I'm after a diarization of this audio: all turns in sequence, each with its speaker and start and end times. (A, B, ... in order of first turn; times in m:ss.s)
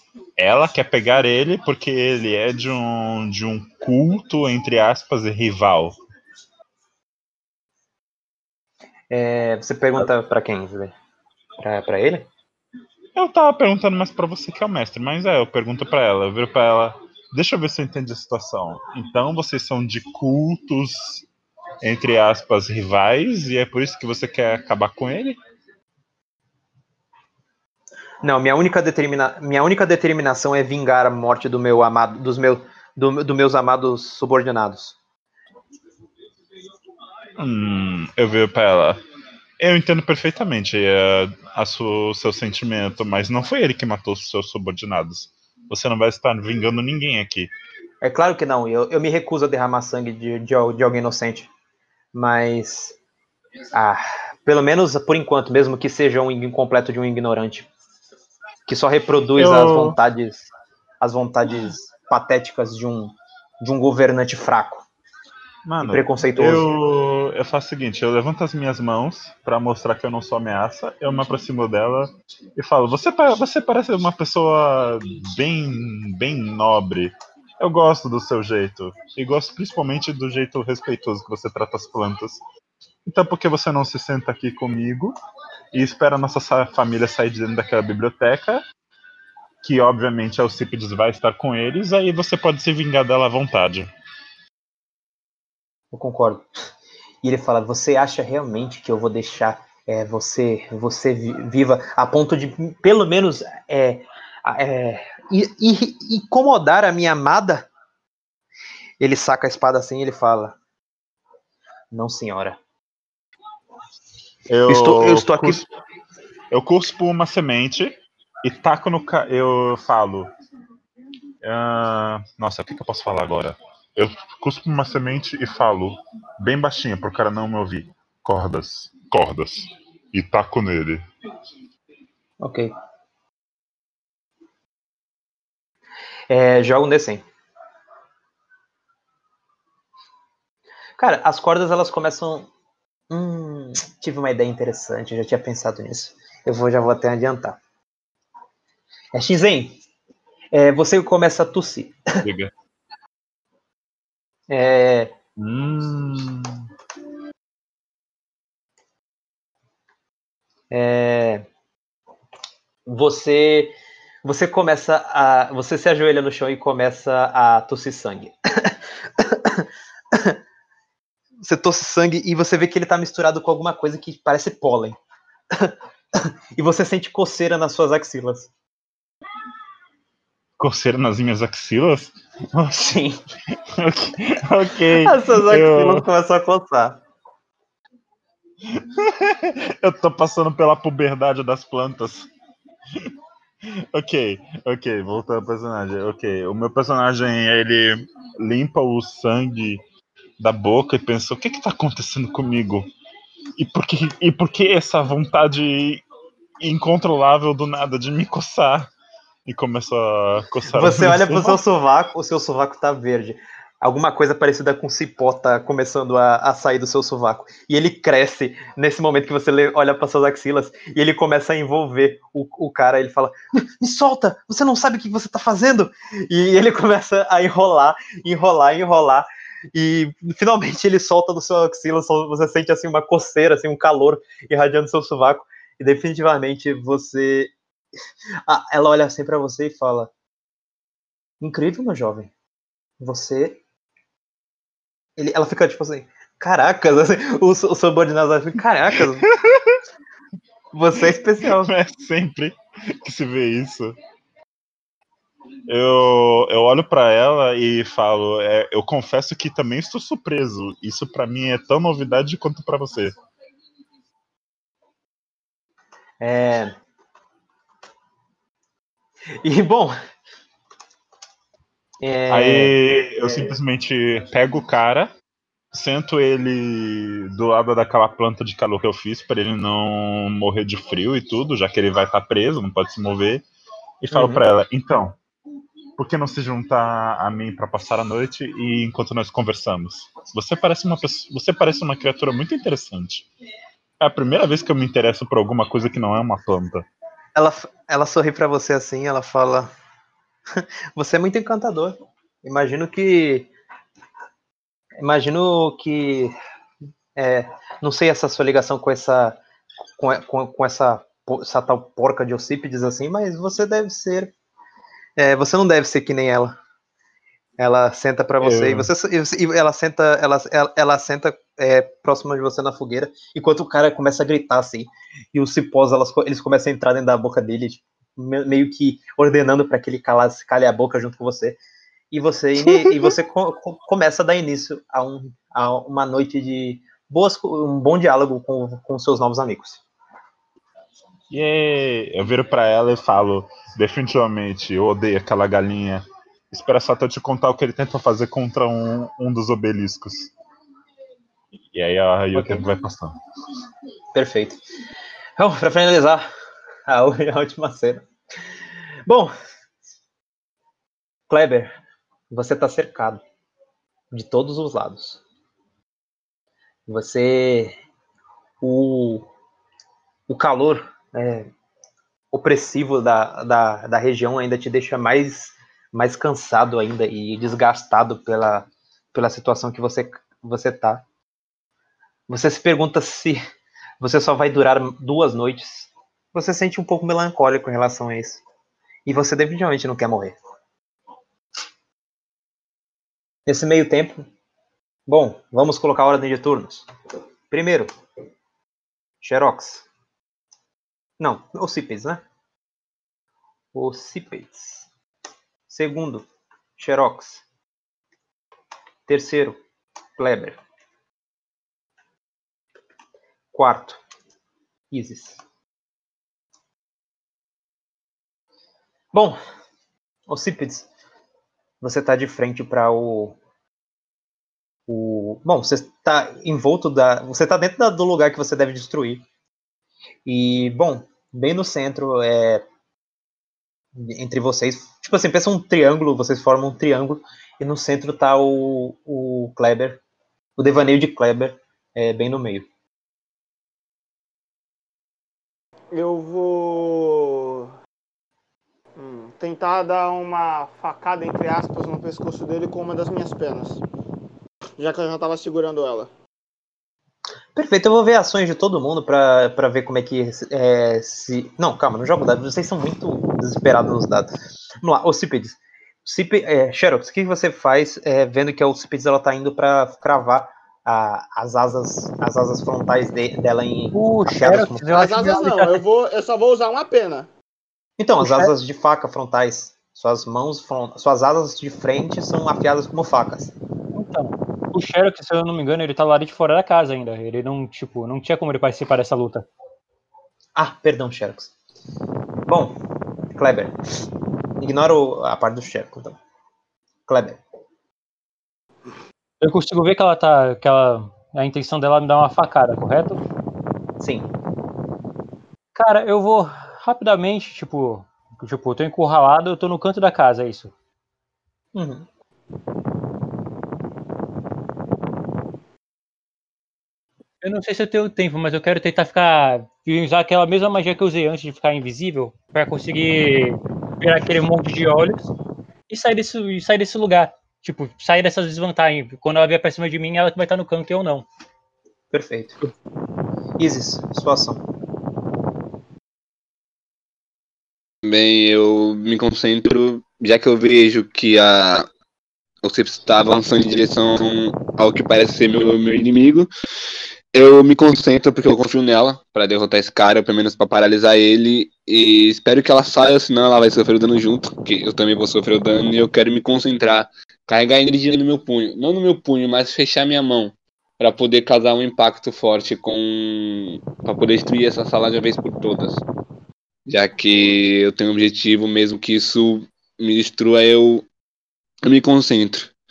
0:00.4-0:06.0 A
0:09.1-0:10.9 B
0:11.6-0:12.3 B
0:13.2-0:21.2 A
0:21.8-0:25.4 A
0:28.2-0:35.0 B
0:37.4-0:39.0 A
0:39.6-0:47.5 A
0:48.0-0:51.5 B
0:52.1-0:53.0 B
0:53.7-0:57.7 B
0:58.7-1:00.5 B
0:59.4-1:00.0 A
1:01.0-1:04.8 B
1:05.7-1:22.4 A
1:05.8-1:06.7 B
1:23.1-1:25.2 A
1:25.7-1:28.6 A
1:29.6-1:33.9 A
1:35.9-1:36.5 B
1:37.2-1:47.7 B
1:49.0-1:50.6 B
1:51.9-1:52.6 B
1:54.5-1:55.7 A
1:54.7-1:55.6 B
1:56.5-2:00.3 A
2:01.4-2:11.0 A
2:12.4-2:12.7 B
2:16.3-2:17.2 B
2:21.0-2:22.5 B
2:23.1-2:27.6 B
2:29.1-2:29.8 B
2:30.5-2:32.0 B
2:32.2-2:32.5 A
2:34.5-2:35.2 B
2:35.4-2:36.6 A
2:40.7-2:41.5 B
2:42.9-2:50.4 B
2:51.4-2:55.0 B
2:55.5-2:58.5 B
3:00.6-3:02.8 A
3:02.7-3:03.2 B
3:03.8-3:06.1 A
3:05.0-3:07.0 B
3:08.7-3:12.3 A
3:13.7-3:19.8 A
3:20.4-3:22.9 A
3:23.6-3:26.0 A
3:26.6-3:28.9 A
3:29.5-3:31.6 A
3:30.7-3:57.5 B
3:58.5-4:00.1 B
4:01.4-4:02.3 B
4:03.0-4:03.6 B
4:05.2-4:09.3 B
4:09.2-4:09.8 A
4:10.7-4:11.7 B
4:11.4-4:14.0 A
4:15.7-4:23.2 A
4:26.2-4:26.8 B
4:29.4-4:30.0 B
4:32.0-4:32.7 B
4:32.3-4:35.1 A
4:35.7-4:43.4 A
4:44.0-4:45.2 A
4:44.1-4:44.4 B
4:46.0-4:53.3 A
4:54.0-4:56.9 A
4:57.4-4:59.7 B
5:00.6-5:03.5 B
5:05.0-5:06.3 B
5:07.2-5:09.4 B
5:10.0-5:14.3 B
5:15.2-5:16.6 B
5:17.6-5:31.6 B
5:18.4-5:18.9 A
5:32.1-5:39.8 B
5:41.3-5:50.3 A
5:51.7-5:53.1 A
5:52.3-5:52.7 B
5:54.1-5:54.6 B
5:55.4-5:56.3 B
5:56.9-5:58.1 B
5:59.1-5:59.3 B
6:01.3-6:01.7 B
6:02.3-6:03.2 B
6:04.1-6:05.2 B
6:06.9-6:07.8 B
6:08.6-6:09.3 B
6:10.3-6:11.5 B
6:12.3-6:21.0 B
6:22.3-6:23.4 B
6:24.0-6:28.4 B
6:29.1-6:30.4 B
6:33.5-6:34.3 B
6:35.1-6:36.9 B
6:37.5-6:37.9 B
6:39.2-6:39.9 B
6:41.2-6:42.2 B
6:43.7-6:44.9 B
6:45.7-6:46.3 B
6:46.8-6:47.4 B
6:49.1-6:49.6 B
6:50.2-6:50.6 B
6:53.5-6:54.0 B
6:54.9-6:55.4 B
6:59.1-6:59.4 B
7:00.3-7:00.9 B
7:01.8-7:03.4 B
7:04.9-7:09.2 B
7:10.3-7:12.6 B
7:13.9-7:20.0 B
7:20.6-7:22.7 B
7:25.9-7:27.7 C
7:29.0-7:33.8 C
7:34.8-7:36.1 C
7:37.5-7:55.0 B
7:53.9-7:55.8 D
7:54.9-7:57.3 C
7:58.0-8:03.5 B
7:58.2-7:58.5 D
8:03.9-8:09.5 D
8:10.6-8:11.5 B
8:12.5-8:12.8 B
8:13.4-8:13.8 B
8:14.6-8:16.2 B
8:17.1-8:17.4 B
8:19.4-8:23.2 D
8:24.0-8:24.3 B
8:25.7-8:30.7 D
8:31.7-8:32.1 B
8:37.4-8:45.3 D
8:45.9-8:51.3 D
8:52.1-8:52.6 B
8:53.6-8:54.6 B
8:58.0-9:01.9 E
9:02.6-9:06.5 E
9:07.3-9:26.0 E
9:26.9-9:31.1 E
9:31.8-9:32.7 E